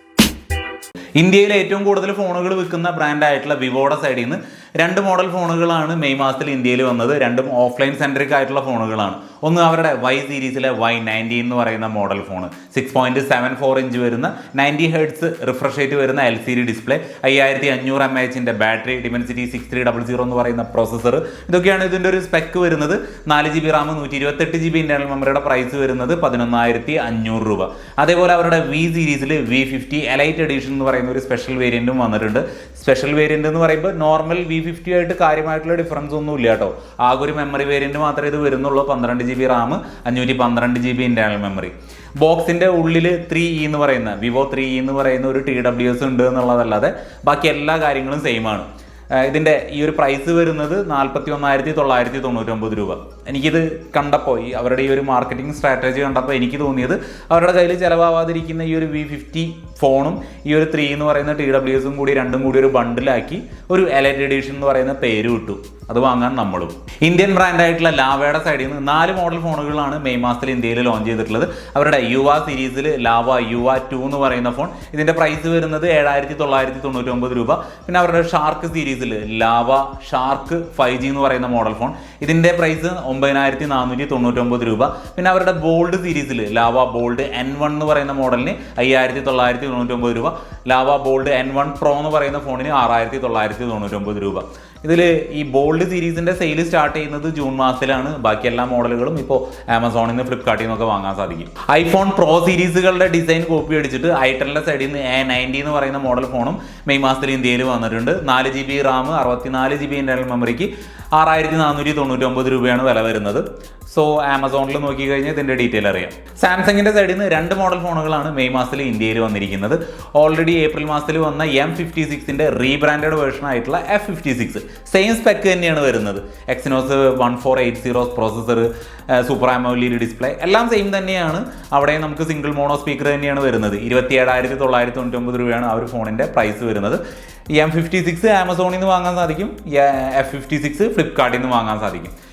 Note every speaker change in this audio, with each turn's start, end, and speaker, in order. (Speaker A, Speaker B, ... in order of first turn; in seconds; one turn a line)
Speaker A: 1.2-137.0
Speaker A: 137.5-142.1